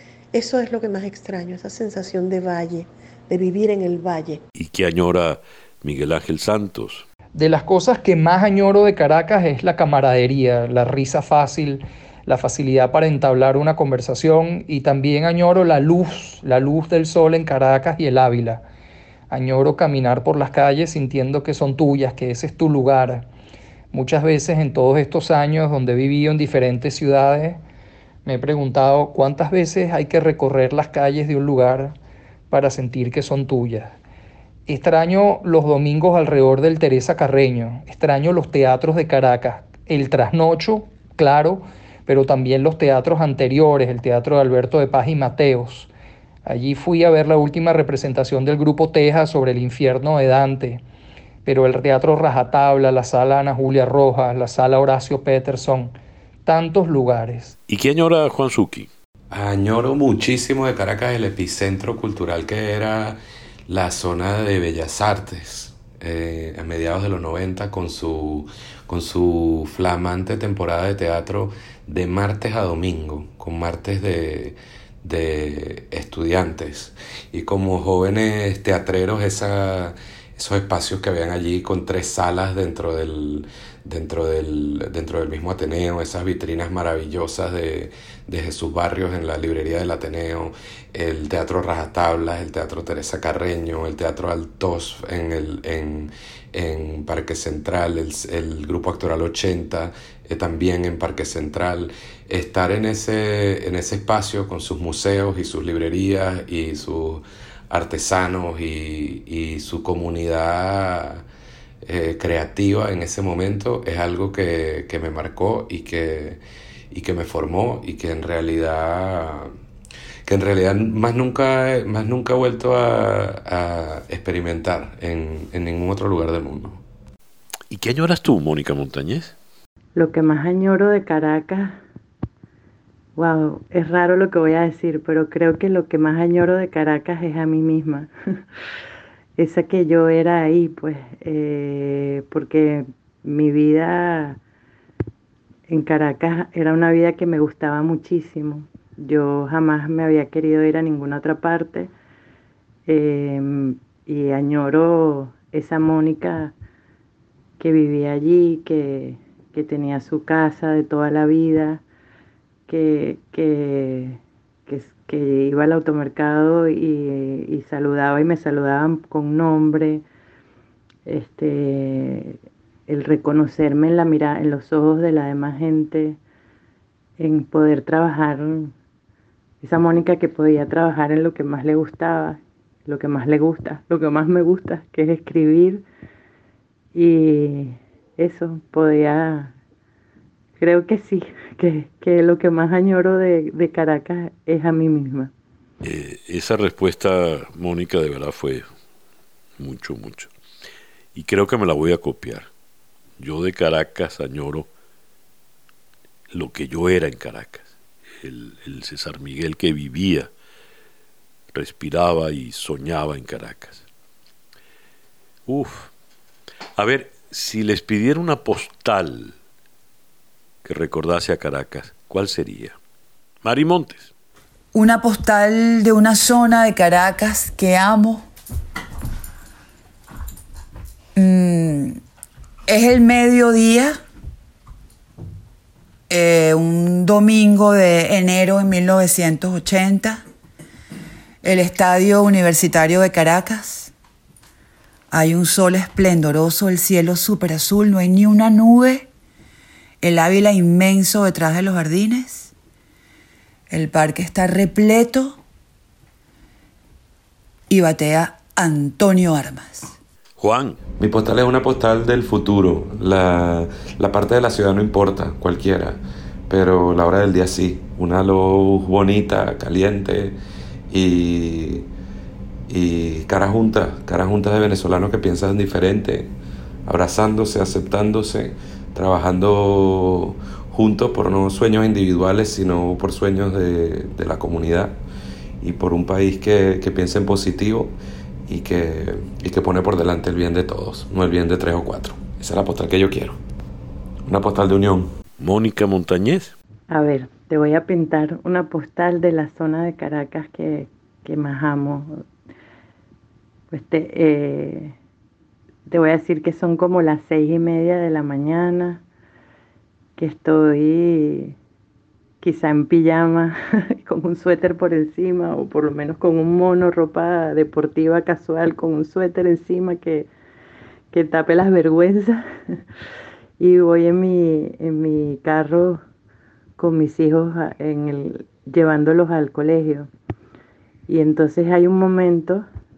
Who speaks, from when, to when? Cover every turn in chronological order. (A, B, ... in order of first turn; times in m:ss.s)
0:00.3-0:04.4 A
0:04.5-0:07.0 B
0:07.3-0:18.6 C
0:19.3-0:23.2 C
0:23.9-0:27.6 C
0:28.2-0:32.0 C
0:32.5-0:34.0 C
0:34.7-0:45.9 C
0:46.4-0:50.8 C
0:51.4-0:57.5 C
0:57.7-0:58.9 B
0:59.3-1:51.2 D
1:51.8-1:59.5 D
2:00.2-2:06.8 D
2:07.7-2:09.3 B
2:09.9-2:11.8 E
2:13.2-2:18.1 E
2:19.4-2:24.4 E
2:25.7-2:31.9 E
2:32.9-2:36.5 E
2:37.6-2:41.8 E
2:42.7-2:50.0 E
2:51.0-2:56.2 E
2:57.2-2:58.7 E
2:59.6-3:05.8 E
3:06.9-3:09.6 E
3:10.6-3:15.3 E
3:15.8-3:18.6 B
3:19.6-3:20.3 B
3:21.1-3:22.5 B
3:23.2-3:24.7 B
3:26.3-3:27.7 B
3:28.2-3:30.3 B
3:31.5-3:33.8 B
3:35.5-3:35.9 B
3:36.8-3:39.3 B
3:40.6-3:42.8 B
3:43.4-3:44.1 B
3:44.7-3:48.3 F
3:51.1-3:52.0 F
3:52.7-3:54.0 F
3:56.1-4:00.2 F
4:01.4-4:03.9 F
4:05.1-4:09.1 F
4:10.0-4:12.5 F
4:13.7-4:15.4 F
4:17.7-4:19.9 F
4:20.4-4:20.8 B
4:21.0-4:30.4 D
4:30.9-4:31.9 D
4:32.7-4:36.3 D
4:36.8-4:45.0 D
4:45.6-4:47.9 D
4:48.5-4:53.4 D
4:54.2-4:55.1 D
4:55.4-4:56.5 B
4:56.9-5:02.2 E
5:03.7-5:05.0 E
5:05.9-5:09.0 E
5:10.2-5:11.6 E
5:12.4-5:20.3 E
5:21.1-5:22.8 E
5:23.6-5:26.0 E
5:26.8-5:30.1 E
5:31.1-5:32.6 E